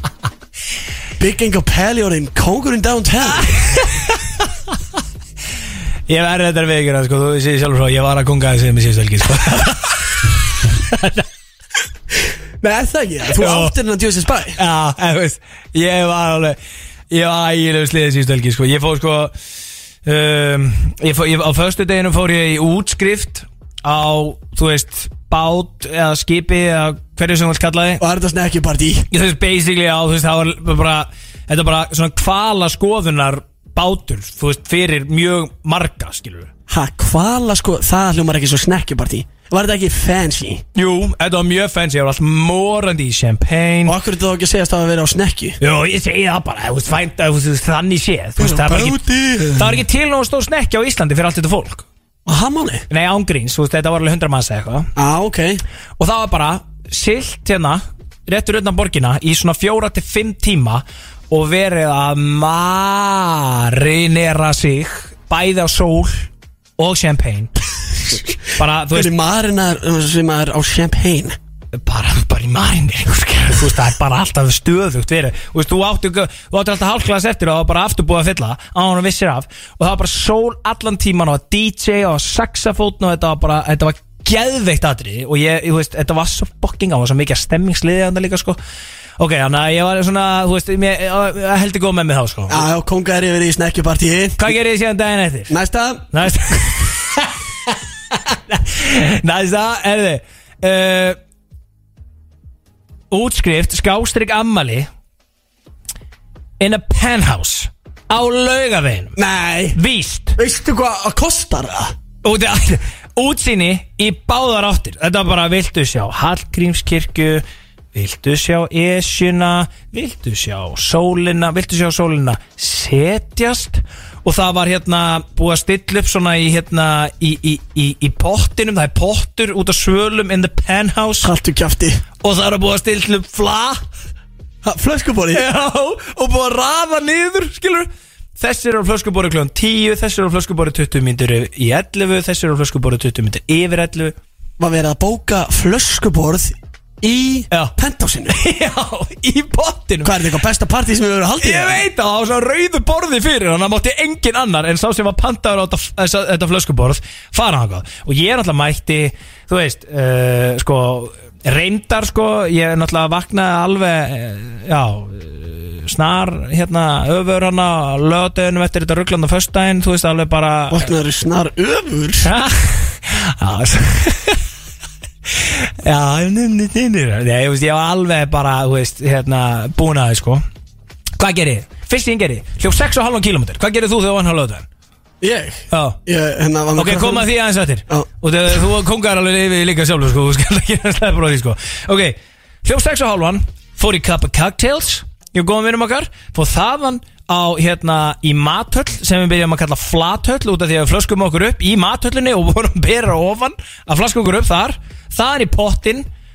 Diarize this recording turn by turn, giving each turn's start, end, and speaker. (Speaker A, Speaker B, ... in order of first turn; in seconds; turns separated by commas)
Speaker A: 1.2-3.6, Speaker B: 3.5-4.2, Speaker B: 6.1-11.2, Speaker A: 12.6-14.6, Speaker B: 13.3-13.7, Speaker B: 14.6-16.6, Speaker B: 17.1-19.3, Speaker B: 20.0-28.0, Speaker A: 28.0-29.1, Speaker B: 29.1-36.5, Speaker A: 36.7-40.6, Speaker B: 40.7-44.0, Speaker A: 43.9-45.6, Speaker B: 45.6-51.9, Speaker A: 48.4-49.8, Speaker A: 52.2-52.8, Speaker B: 52.9-54.9, Speaker A: 55.0-55.6, Speaker B: 56.0-67.5, Speaker B: 68.4-69.1, Speaker A: 68.9-71.3, Speaker B: 71.7-88.6, Speaker B: 89.2-92.7, Speaker A: 92.5-94.5, Speaker B: 94.4-95.5, Speaker A: 95.5-96.1, Speaker B: 96.1-101.2, Speaker B: 103.1-104.9, Speaker B: 106.6-109.2, Speaker A: 109.2-109.8, Speaker B: 109.7-110.4, Speaker A: 110.4-111.9, Speaker B: 112.2-131.3, Speaker A: 131.2-132.0, Speaker B: 132.2-133.8, Speaker A: 134.6-135.4, Speaker B: 135.3-144.2, Speaker A: 144.6-148.3, Speaker B: 148.3-150.1, Speaker A: 150.0-151.8, Speaker B: 151.4-170.9, Speaker A: 170.7-172.3, Speaker B: 172.2-174.4, Speaker B: 175.3-180.4, Speaker B: 181.2-184.7, Speaker A: 185.2-187.3, Speaker B: 185.7-186.0, Speaker B: 186.8-206.1